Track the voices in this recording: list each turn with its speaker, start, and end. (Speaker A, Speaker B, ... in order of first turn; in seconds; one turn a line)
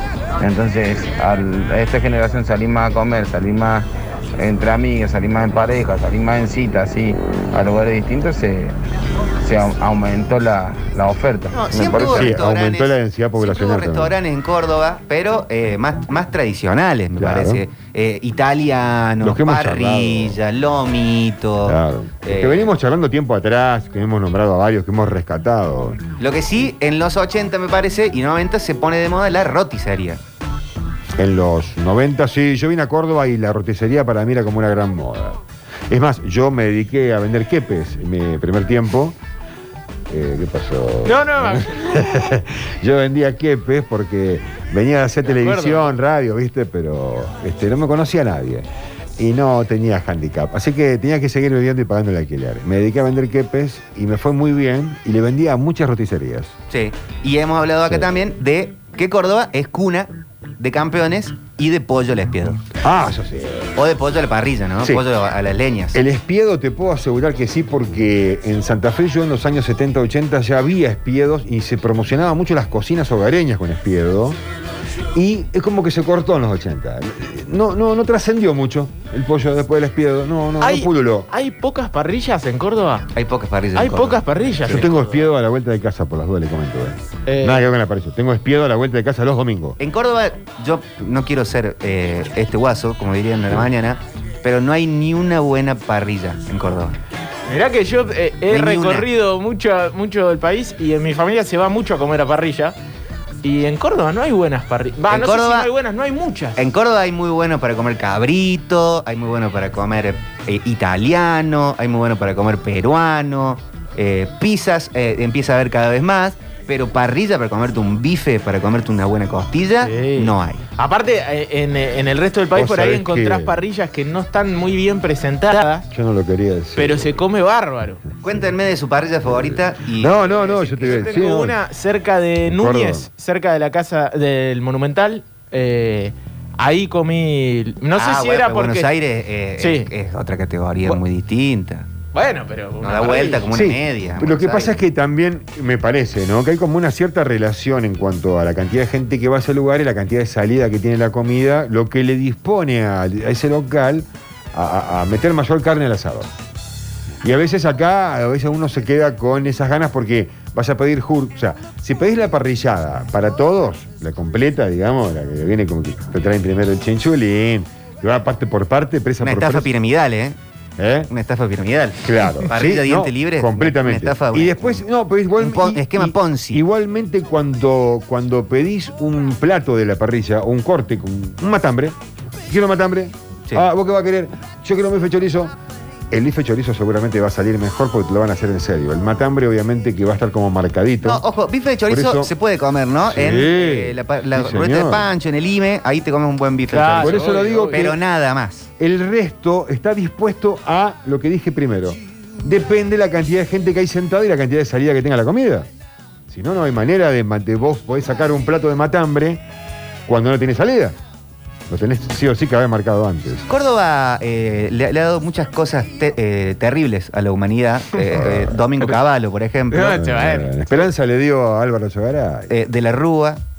Speaker A: 0.4-8.8
Speaker A: 9.4-12.3
Speaker B: 11.5-22.7
Speaker C: 11.7-14.2
Speaker C: 17.2-17.6
Speaker C: 19.2-20.4
Speaker C: 21.6-26.0
Speaker B: 26.2-30.2
Speaker C: 31.2-39.2
Speaker C: 40.1-48.7
Speaker D: 41.0-42.2
Speaker D: 45.2-45.9
Speaker C: 49.2-56.5
Speaker B: 56.7-62.7
Speaker C: 62.8-63.8
Speaker B: 63.8-66.0
Speaker C: 65.9-74.4
Speaker C: 75.1-81.3
Speaker D: 80.6-83.1
Speaker B: 83.2-84.2
Speaker D: 83.8-85.2
Speaker C: 84.6-89.8
Speaker D: 87.3-87.6
Speaker B: 89.8-97.0
Speaker D: 97.5-102.8
Speaker B: 98.5-99.1
Speaker D: 103.4-106.6
Speaker B: 105.1-105.7
Speaker B: 106.6-120.7
Speaker D: 119.8-125.9
Speaker C: 122.5-123.6
Speaker C: 125.9-127.2
Speaker D: 126.8-128.0
Speaker B: 128.2-130.3
Speaker C: 129.8-131.6
Speaker D: 130.2-138.9
Speaker C: 132.5-133.1
Speaker B: 138.0-141.9
Speaker D: 139.6-139.9
Speaker D: 142.1-143.5
Speaker B: 142.8-144.8
Speaker C: 143.5-156.3
Speaker C: 157.2-169.7
Speaker B: 169.2-170.4
Speaker C: 170.8-171.1
Speaker B: 171.1-174.8
Speaker C: 172.0-185.6
Speaker B: 175.4-176.6
Speaker C: 186.1-191.2
Speaker B: 191.0-198.7
Speaker C: 191.9-192.3
Speaker C: 193.1-195.1
Speaker D: 196.7-197.9
Speaker C: 196.9-198.0
Speaker C: 198.8-205.7
Speaker C: 206.3-209.4
Speaker C: 210.1-211.0
Speaker C: 211.7-213.5
Speaker B: 213.5-220.0
Speaker C: 218.1-218.6
Speaker D: 219.7-220.8
Speaker C: 219.8-222.5
Speaker B: 222.5-223.4